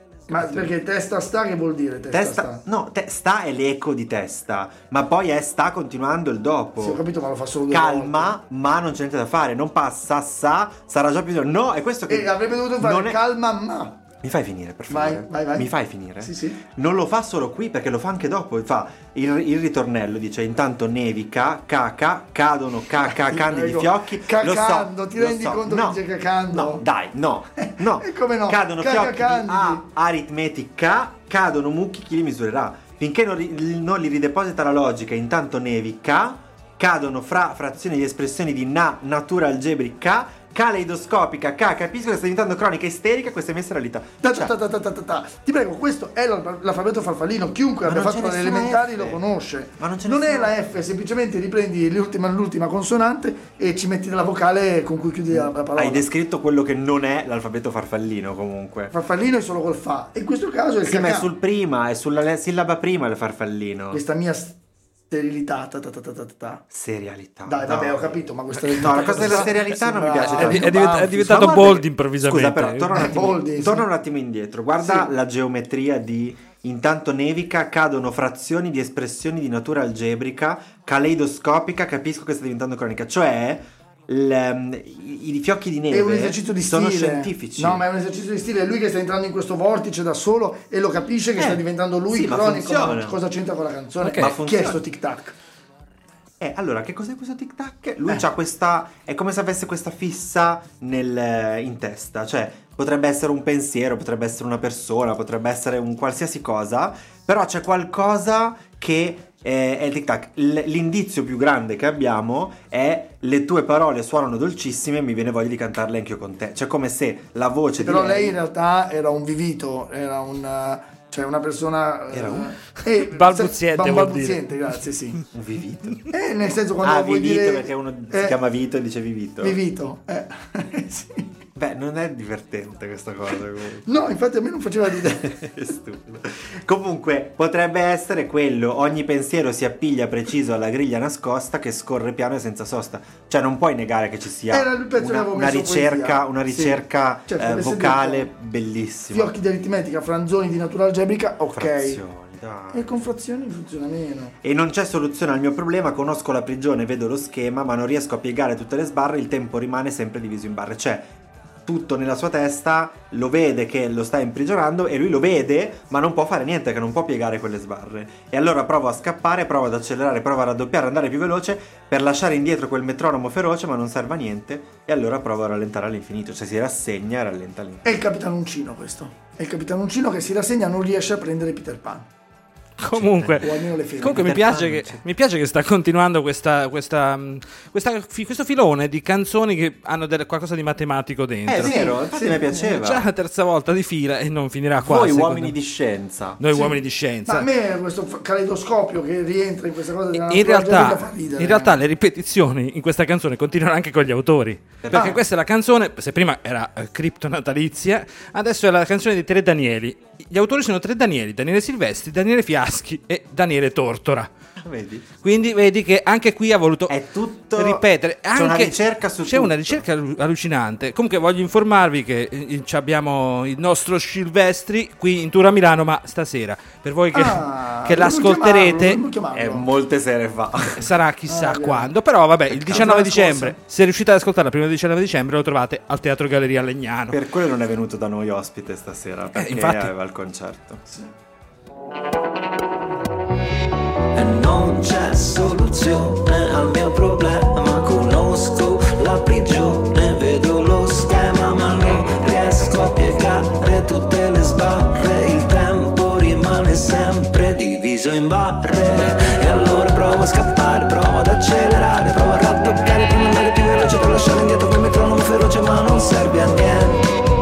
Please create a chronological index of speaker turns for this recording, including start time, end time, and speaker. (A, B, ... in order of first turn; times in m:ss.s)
0:00.3-0:02.6 A
0:00.3-0:00.7 B
0:02.1-0:07.0 B
0:06.8-0:08.4 A
0:07.7-0:13.2 B
0:12.1-0:14.0 A
0:14.2-0:44.5 B
0:14.9-0:16.6 A
0:23.0-0:26.8 A
0:27.6-0:29.8 A
0:44.2-0:56.0 A
0:47.8-0:49.2 B
0:49.8-0:50.5 B
0:55.3-0:58.9 B
0:58.9-1:01.3 A
1:00.8-1:04.0 B
1:03.9-1:04.6 A
1:05.1-1:06.6 A
1:06.7-1:27.8 B
1:07.4-1:11.3 A
1:08.7-1:09.5 C
1:10.3-1:12.9 C
1:12.9-1:13.8 A
1:14.8-1:15.1 A
1:25.9-1:35.3 A
1:31.4-1:33.2 B
1:34.0-1:34.3 C
1:34.2-1:34.8 B
1:36.4-1:58.4 B
1:57.8-2:05.2 A
2:02.1-2:02.6 B
2:02.9-2:04.4 C
2:05.3-2:06.1 B
2:06.1-2:08.4 A
2:06.8-2:09.6 B
2:09.4-2:11.2 A
2:11.6-2:14.0 B
2:13.8-2:15.3 A
2:15.0-2:29.3 B
2:24.5-2:28.3 A
2:29.1-2:32.0 A
2:31.5-2:33.0 B
2:32.7-2:34.4 A
2:34.4-2:41.1 B
2:41.6-2:57.9 B
2:57.8-3:02.1 A
3:02.8-3:11.9 C
3:02.9-3:05.0 B
3:03.4-3:04.3 A
3:11.4-3:13.0 B
3:11.6-3:12.6 A
3:12.6-3:15.5 C
3:14.8-3:16.4 B
3:16.4-3:17.5 C
3:16.5-3:21.8 A
3:20.1-3:34.3 C
3:24.8-3:25.2 B
3:24.9-3:25.2 A
3:34.6-3:35.1 B
3:35.2-3:37.0 C
3:36.9-3:39.8 B
3:37.5-3:49.0 C
3:47.1-3:49.7 A
3:49.3-3:50.9 B
3:50.7-3:57.2 C
3:51.3-3:51.9 A
3:52.5-3:53.0 B
3:52.7-3:53.6 A
3:57.1-4:00.8 B
3:59.3-3:59.9 C
4:04.1-4:27.1 D